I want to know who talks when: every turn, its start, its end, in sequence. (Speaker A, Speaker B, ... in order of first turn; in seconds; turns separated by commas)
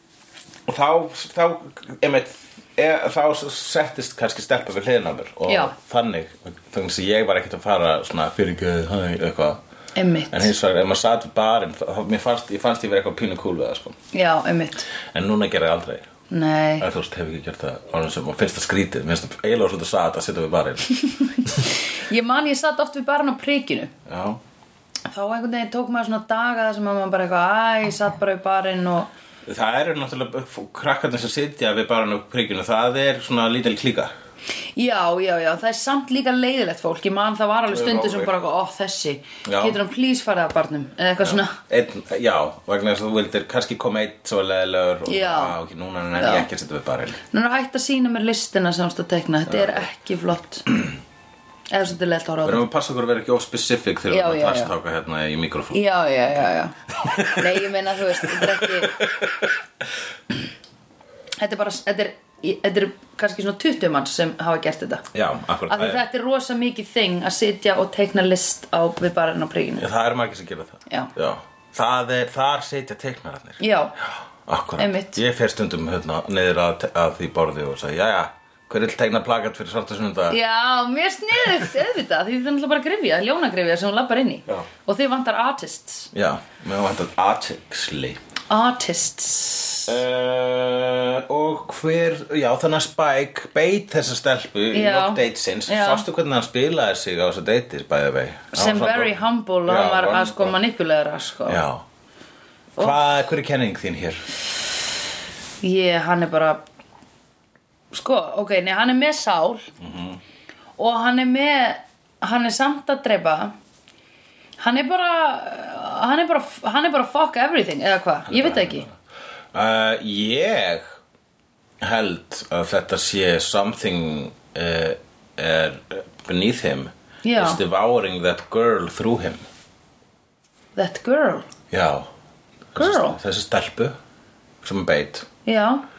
Speaker A: 0.7-9.6, Speaker B: 5.5-5.7, Speaker B: 10.0-10.5, Speaker A: 10.3-14.0, Speaker B: 14.1-14.9, Speaker A: 15.1-16.1, Speaker B: 16.3-16.9, Speaker A: 16.8-21.7, Speaker B: 20.9-23.9, Speaker A: 24.1-24.4, Speaker B: 25.1-29.1, Speaker A: 29.5-34.1, Speaker B: 34.8-41.6, Speaker A: 37.7-38.3, Speaker A: 39.5-39.8, Speaker A: 41.2-47.2, Speaker B: 45.1-45.6, Speaker B: 46.2-46.5, Speaker B: 47.3-50.7, Speaker A: 49.5-49.9, Speaker B: 51.7-52.6, Speaker A: 52.4-55.9, Speaker B: 54.1-54.7, Speaker B: 55.7-59.0, Speaker A: 56.9-59.6, Speaker B: 61.4-65.0, Speaker A: 65.1-66.0, Speaker B: 65.7-69.9, Speaker A: 69.8-80.4, Speaker B: 73.6-73.9, Speaker B: 74.8-75.2, Speaker B: 80.3-86.1, Speaker A: 86.1-88.2, Speaker B: 88.5-90.0, Speaker A: 89.9-99.2, Speaker B: 94.7-96.0, Speaker B: 98.5-101.6, Speaker A: 99.7-100.6, Speaker A: 101.5-101.8, Speaker A: 102.8-104.3, Speaker B: 105.6-106.6, Speaker B: 107.9-109.7, Speaker A: 109.8-110.2, Speaker B: 110.8-113.5, Speaker B: 114.6-118.9, Speaker A: 118.3-118.9, Speaker A: 119.5-121.0, Speaker A: 121.8-129.4, Speaker B: 127.2-127.6, Speaker B: 130.8-131.5, Speaker A: 131.7-132.1, Speaker A: 132.7-133.9, Speaker B: 132.8-133.2, Speaker A: 134.6-135.3, Speaker B: 135.5-135.8